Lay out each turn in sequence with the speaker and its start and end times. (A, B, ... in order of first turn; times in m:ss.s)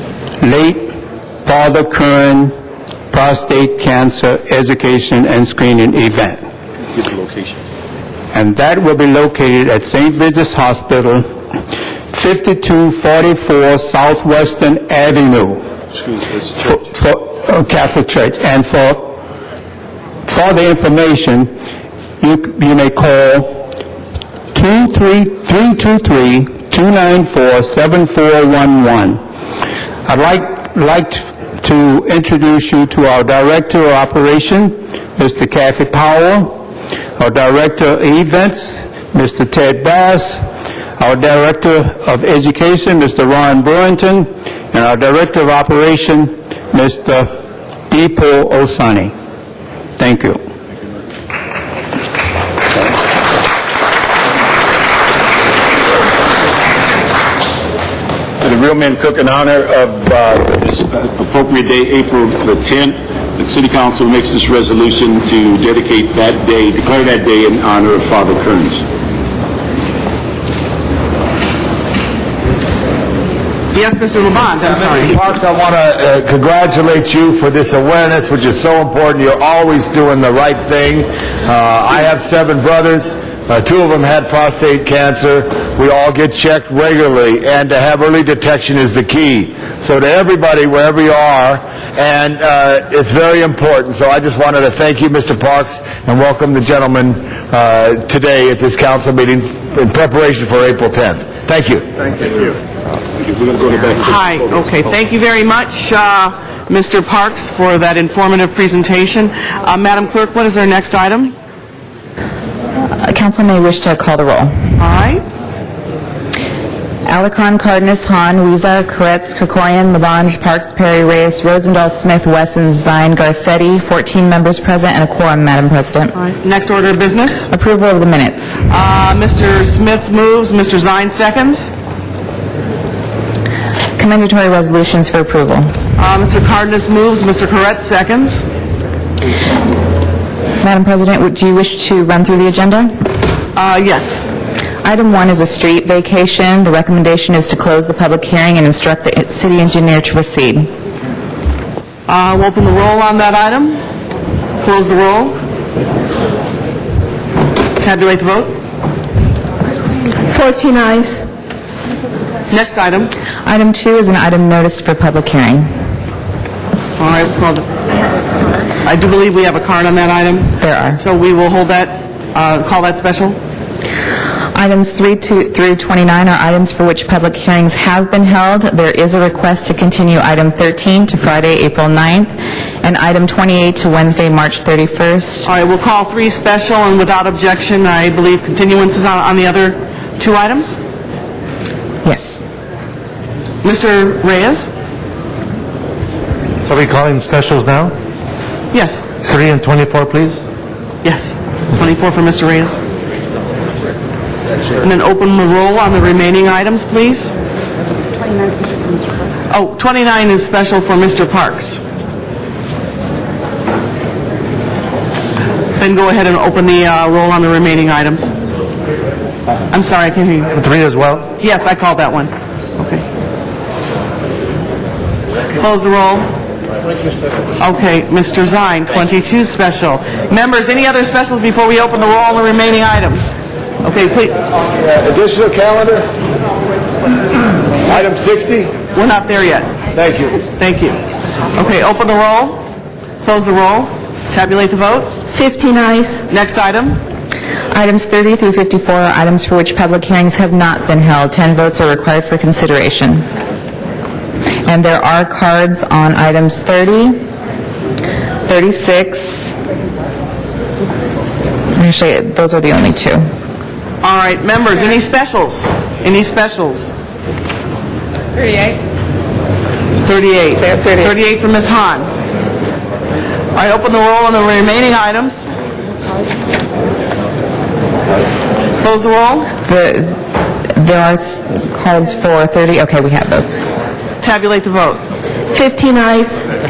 0:00.4-0:00.9 A
0:01.4-0:02.5 A
0:03.1-0:06.4 A
0:07.0-0:07.5 B
0:08.3-0:11.3 A
0:12.1-0:15.6 A
0:16.6-0:19.2 A
0:20.3-0:21.5 A
0:22.2-0:23.6 A
0:24.5-0:29.2 A
0:30.0-0:36.6 A
0:37.2-0:40.4 A
0:41.0-0:47.3 A
0:47.9-0:49.1 A
0:50.0-0:50.4 A
0:58.4-1:08.8 B
1:13.7-1:15.2 C
1:14.7-1:41.8 D
1:43.2-1:44.4 B
1:44.0-1:51.3 C
1:53.0-1:54.5 E
1:54.8-1:55.2 C
1:57.1-2:06.1 E
2:06.2-2:07.5 C
2:07.5-2:08.6 E
2:08.7-2:11.7 C
2:14.0-2:15.7 E
2:16.0-2:18.4 C
2:20.6-2:22.9 E
2:23.6-2:24.2 C
2:24.8-2:30.7 E
2:32.1-2:33.8 C
2:34.6-2:35.4 C
2:37.8-2:38.6 C
2:40.3-2:41.2 F
2:42.5-2:43.1 C
2:43.4-2:45.7 E
2:47.0-2:47.7 C
2:48.8-2:53.4 C
2:50.6-2:51.0 E
2:54.5-3:02.3 E
3:02.8-3:05.5 E
3:05.4-3:10.8 C
3:12.0-3:12.4 E
3:13.6-3:14.7 C
3:16.6-3:17.9 G
3:18.7-3:19.0 C
3:19.2-3:20.5 G
3:21.0-3:22.8 C
3:24.8-3:27.3 C
3:29.5-3:31.8 C
3:35.8-3:38.3 C
3:39.7-3:40.5 C
3:40.5-3:41.3 G
3:41.4-3:43.0 C
3:45.6-3:46.3 C
3:47.6-3:54.4 C
3:54.6-3:56.1 D
3:57.8-3:58.7 D
3:58.9-3:59.8 C
3:59.9-4:00.4 D
4:00.4-4:01.0 C
4:01.5-4:02.6 C
4:03.2-4:05.2 C
4:05.3-4:06.2 F
4:06.3-4:07.0 C
4:07.7-4:13.2 E
4:14.7-4:17.2 E
4:18.4-4:19.5 E
4:21.8-4:23.2 E
4:24.0-4:26.9 C
4:30.0-4:32.1 C
4:33.5-4:35.5 C
4:38.8-4:39.5 C
4:39.6-4:40.1 E
4:40.8-4:43.6 E
4:44.2-4:45.0 C
4:45.5-4:46.4 F